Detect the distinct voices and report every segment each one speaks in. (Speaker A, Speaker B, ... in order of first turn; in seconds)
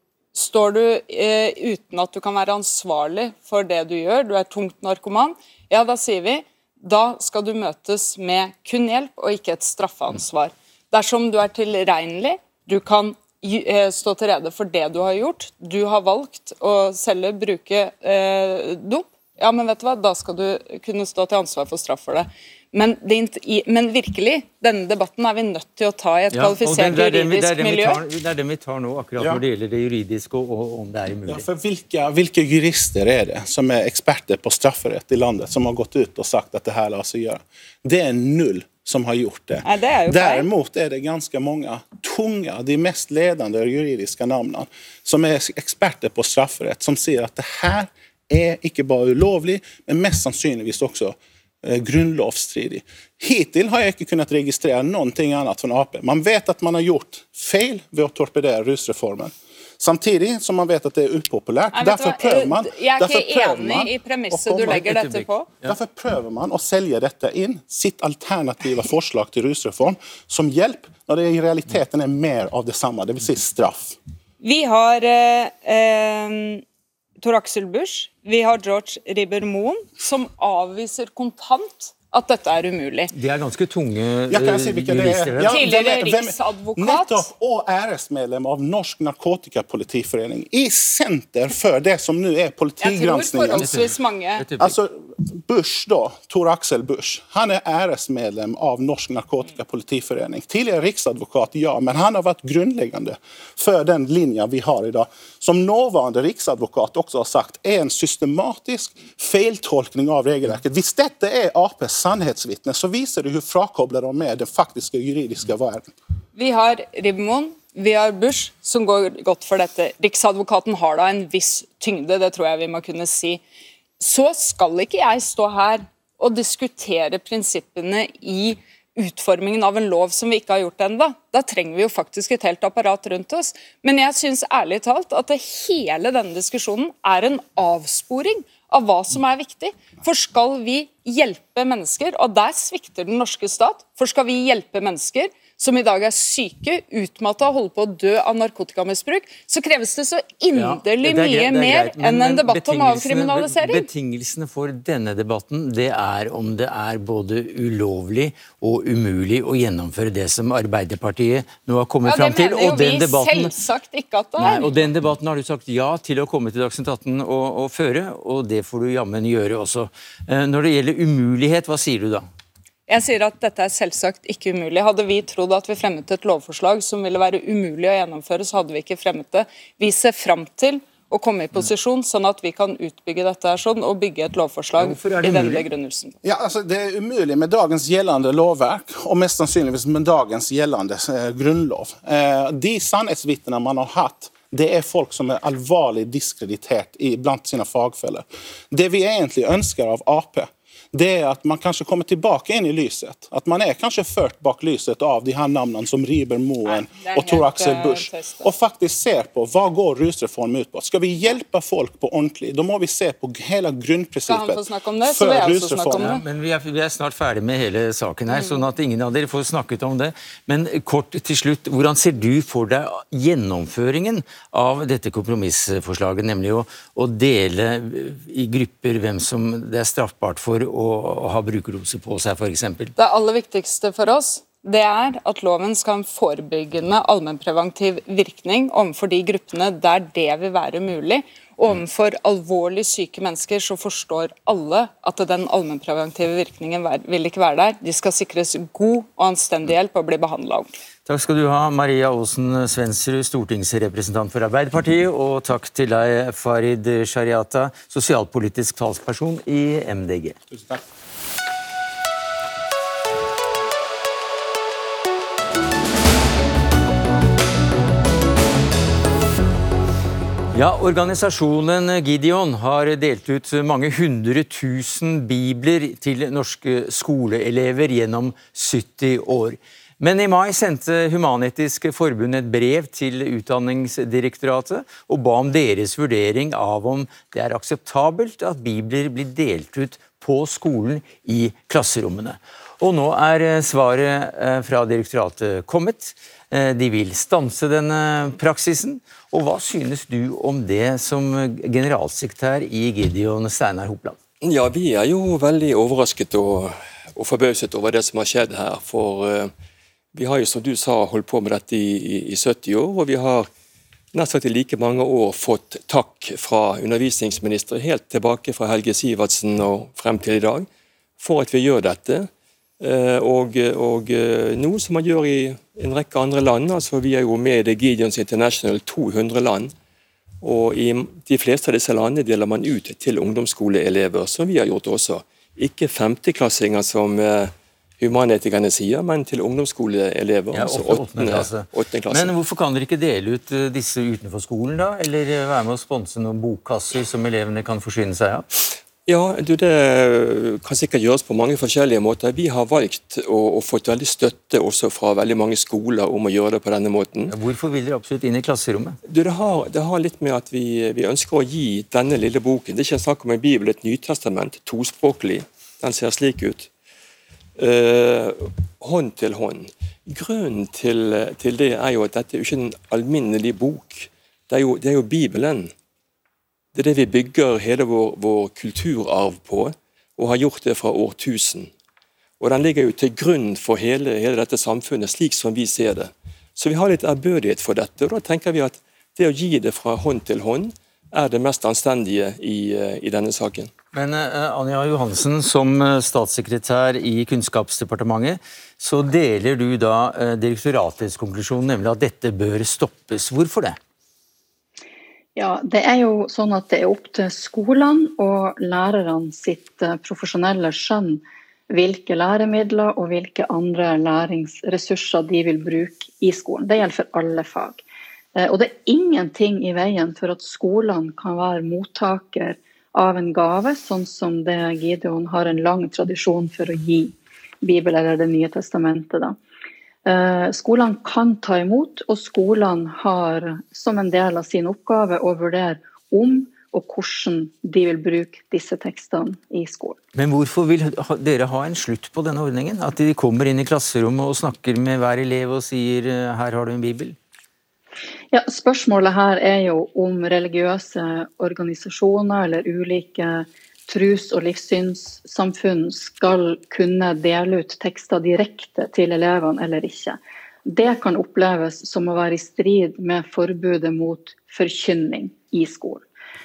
Speaker A: 0.3-28.0, 39.6-40.5, 61.7-65.5, 74.4-76.6, 77.2-83.1, 85.5-87.3, 92.8-94.5, 116.3-123.4, 124.0-153.9, 162.0-164.9, 172.9-186.2, 206.7-208.5, 214.3-216.2, 218.3-218.6, 233.0-250.8
Speaker B: 26.3-31.5, 64.7-65.7, 83.1-85.6, 93.6-94.8, 150.5-163.5, 164.4-172.3, 184.8-185.7, 216.0-232.9, 251.1-260.4, 270.5-304.2, 340.5-348.5, 357.3-359.0, 393.9-403.8, 440.1-447.2
Speaker C: 29.2-29.4, 31.3-64.8, 65.7-74.0, 84.3-93.8, 94.6-115.9, 186.2-216.1
Speaker D: 304.4-309.5, 310.1-313.5, 314.1-320.7, 321.2-322.3, 322.8-329.7, 330.4-342.3, 349.1-357.3, 359.1-366.7, 367.6-375.7, 376.8-381.7, 382.4-393.7
Speaker E: 405.4-417.8, 418.4-429.4, 430.1-440.0, 448.3-466.0